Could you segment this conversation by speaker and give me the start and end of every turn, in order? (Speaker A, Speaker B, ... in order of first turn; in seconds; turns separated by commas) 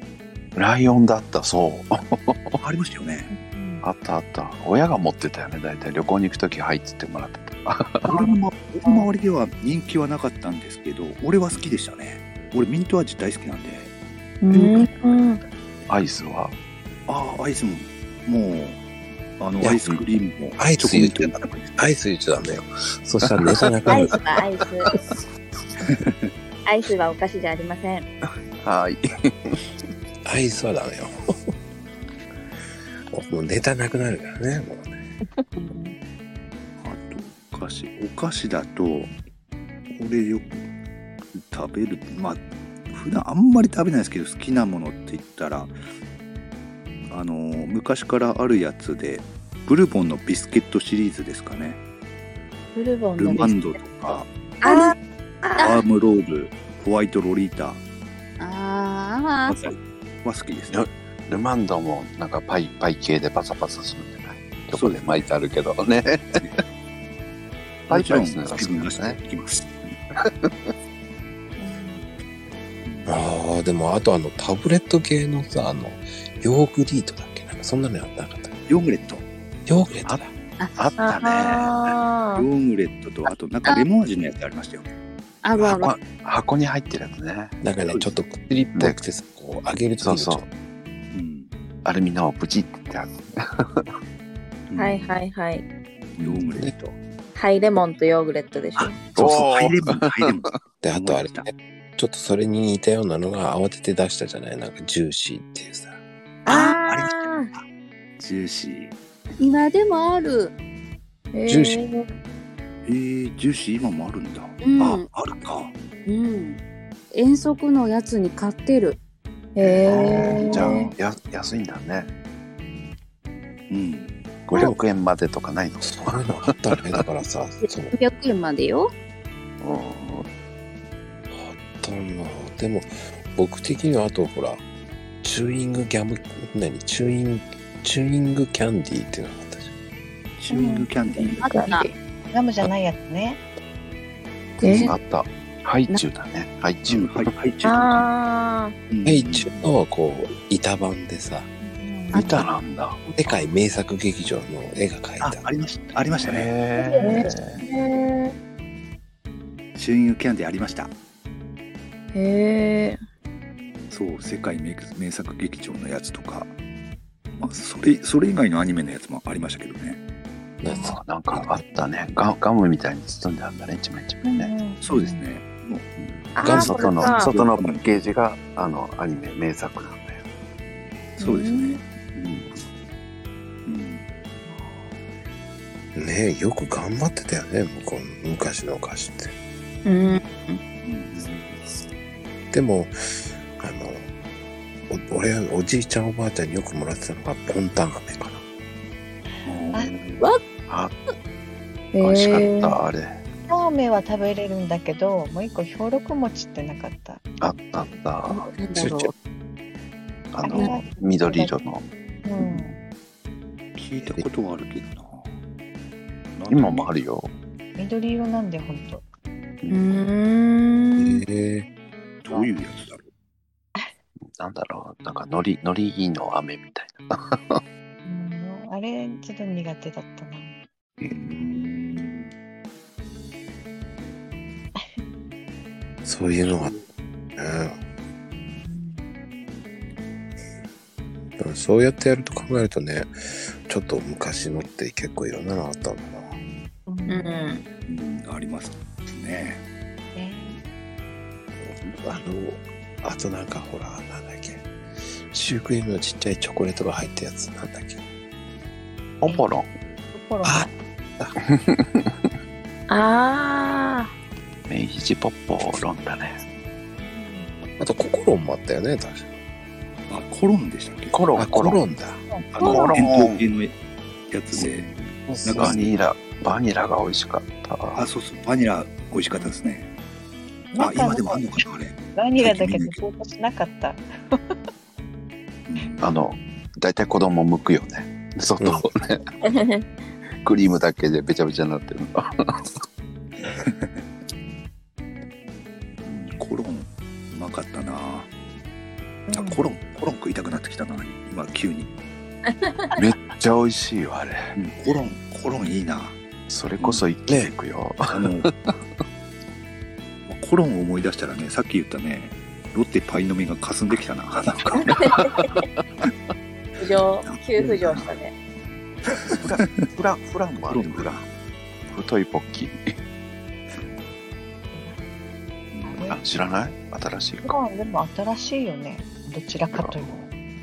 Speaker A: 0.5-2.6, Speaker B: 2.6-3.3, Speaker C: 3.3-3.8, Speaker A: 3.8-8.3, Speaker B: 8.1-13.9, Speaker D: 14.4-15.4, Speaker A: 15.9-16.6, Speaker B: 17.1-18.8, Speaker B: 19.4-21.8, Speaker A: 19.6-20.0, Speaker E: 20.6-24.1, Speaker A: 23.2-24.2, Speaker D: 23.9-24.9, Speaker D: 26.6-28.1, Speaker A: 28.6-29.6, Speaker E: 30.2-31.1, Speaker E: 33.1-34.9, Speaker B: 36.8-39.1, Speaker B: 39.9-40.5, Speaker B: 41.3-45.7, Speaker B: 47.1-51.8, Speaker D: 52.7-53.6, Speaker B: 53.2-54.3, Speaker D: 54.6-55.8, Speaker B: 55.6-57.8, Speaker F: 58.4-59.6, Speaker B: 59.5-60.8, Speaker A: 60.7-66.6, Speaker B: 64.7-65.3, Speaker A: 67.9-69.2, Speaker B: 67.9-70.0, Speaker A: 70.1-70.7, Speaker B: 72.8-73.2, Speaker E: 73.0-78.5, Speaker B: 78.7-79.2, Speaker E: 79.7-80.3, Speaker A: 80.0-81.1, Speaker D: 81.0-82.5, Speaker B: 81.0-84.9, Speaker F: 85.4-85.9, Speaker A: 85.5-87.6, Speaker E: 87.6-90.4, Speaker B: 87.8-88.1, Speaker A: 90.0-90.5, Speaker B: 91.1-91.5, Speaker A: 91.8-93.9, Speaker B: 94.7-95.1, Speaker D: 94.8-95.6, Speaker B: 96.2-97.0, Speaker A: 96.2-96.7, Speaker D: 97.3-99.0, Speaker B: 98.8-101.5, Speaker A: 99.1-100.6, Speaker E: 100.8-105.9, Speaker D: 106.5-107.5, Speaker B: 106.5-107.6, Speaker B: 108.2-108.9, Speaker F: 109.4-110.5, Speaker D: 111.3-112.1, Speaker E: 111.5-111.8, Speaker B: 112.8-115.7, Speaker F: 114.6-115.1, Speaker F: 116.0-116.6, Speaker F: 117.1-119.0, Speaker D: 119.5-120.8, Speaker A: 119.6-122.1, Speaker B: 119.8-120.9, Speaker B: 123.7-124.1, Speaker A: 124.5-127.0, Speaker E: 125.8-127.9, Speaker F: 127.9-128.9, Speaker A: 129.6-130.3, Speaker E: 131.3-134.6, Speaker E: 135.2-139.7, Speaker B: 140.4-141.5, Speaker C: 140.5-140.9, Speaker F: 141.4-141.9, Speaker D: 141.4-141.9, Speaker C: 142.3-143.4, Speaker F: 144.6-144.9, Speaker A: 144.6-147.3, Speaker B: 146.9-148.1, Speaker D: 147.6-148.7, Speaker B: 148.9-149.7, Speaker E: 149.0-151.5, Speaker C: 151.6-152.1, Speaker A: 152.1-153.0, Speaker F: 152.1-152.4, Speaker E: 152.2-152.4, Speaker E: 153.1-155.4, Speaker B: 155.2-156.5, Speaker A: 156.2-157.6, Speaker C: 156.8-157.2, Speaker D: 156.9-158.3, Speaker B: 159.7-160.9, Speaker D: 162.1-163.0, Speaker B: 163.9-166.5, Speaker B: 167.3-170.0, Speaker E: 170.6-171.6, Speaker A: 170.7-174.5, Speaker C: 174.2-175.2, Speaker B: 174.8-175.9, Speaker A: 176.0-180.2, Speaker D: 176.3-177.3, Speaker E: 176.4-176.8, Speaker B: 176.5-177.8, Speaker B: 181.2-181.8, Speaker D: 181.2-181.8, Speaker A: 182.2-182.6, Speaker B: 183.7-184.0, Speaker C: 184.4-184.9, Speaker E: 185.9-189.3, Speaker D: 189.8-190.6, Speaker B: 190.8-191.3, Speaker A: 191.1-191.6, Speaker E: 192.5-194.1, Speaker E: 194.9-198.4, Speaker A: 199.5-200.9, Speaker D: 201.9-202.8, Speaker A: 202.0-203.2, Speaker C: 203.5-207.2, Speaker A: 207.4-208.5, Speaker F: 208.3-209.1, Speaker E: 208.7-209.1, Speaker A: 210.3-211.9, Speaker C: 210.4-211.5, Speaker C: 212.2-212.8, Speaker B: 213.8-215.3, Speaker B: 216.3-216.9, Speaker A: 216.5-217.3, Speaker C: 217.8-219.0, Speaker A: 219.6-220.1, Speaker D: 219.7-221.2, Speaker E: 221.0-221.7, Speaker B: 222.2-223.1, Speaker A: 224.2-227.6, Speaker C: 228.0-230.6, Speaker B: 231.1-232.3, Speaker E: 236.0-236.8, Speaker E: 237.4-237.8, Speaker C: 238.6-239.0, Speaker E: 241.4-246.3, Speaker C: 246.9-247.6, Speaker D: 247.1-247.6, Speaker B: 247.9-249.6, Speaker C: 250.1-250.6, Speaker E: 251.6-254.6, Speaker E: 255.3-258.0, Speaker A: 259.2-259.7, Speaker C: 260.1-260.7, Speaker E: 260.4-261.3, Speaker A: 261.4-262.1, Speaker D: 262.9-264.1, Speaker A: 264.7-266.4, Speaker C: 267.0-267.6, Speaker E: 267.8-269.3, Speaker B: 270.1-271.4, Speaker A: 271.1-271.8, Speaker E: 271.4-272.2, Speaker B: 272.5-273.7, Speaker A: 272.6-273.4, Speaker B: 274.3-274.9, Speaker A: 274.6-275.0, Speaker E: 275.3-275.9, Speaker B: 275.4-275.9, Speaker A: 275.5-278.0, Speaker B: 277.9-279.9, Speaker C: 280.7-281.6, Speaker B: 280.8-283.0, Speaker C: 282.1-284.4, Speaker B: 285.7-286.1, Speaker A: 286.0-289.3, Speaker E: 288.6-288.9, Speaker D: 289.5-289.8, Speaker A: 290.4-292.6, Speaker B: 293.4-294.0, Speaker B: 296.0-298.3, Speaker C: 299.3-299.7, Speaker B: 299.3-301.9, Speaker D: 302.6-302.9, Speaker A: 302.9-304.5, Speaker B: 304.6-306.2, Speaker A: 306.5-308.8, Speaker B: 306.8-307.0, Speaker E: 307.3-307.5, Speaker B: 308.1-308.5, Speaker B: 310.2-315.2, Speaker D: 315.0-315.5, Speaker A: 315.1-315.6, Speaker D: 316.8-318.3, Speaker B: 317.2-318.1, Speaker B: 319.2-319.9, Speaker A: 319.3-321.2, Speaker B: 320.7-321.2, Speaker A: 321.9-323.0, Speaker C: 324.7-325.0, Speaker B: 325.7-326.0, Speaker C: 325.9-326.4, Speaker A: 326.0-327.5, Speaker C: 327.4-330.1, Speaker A: 329.7-330.3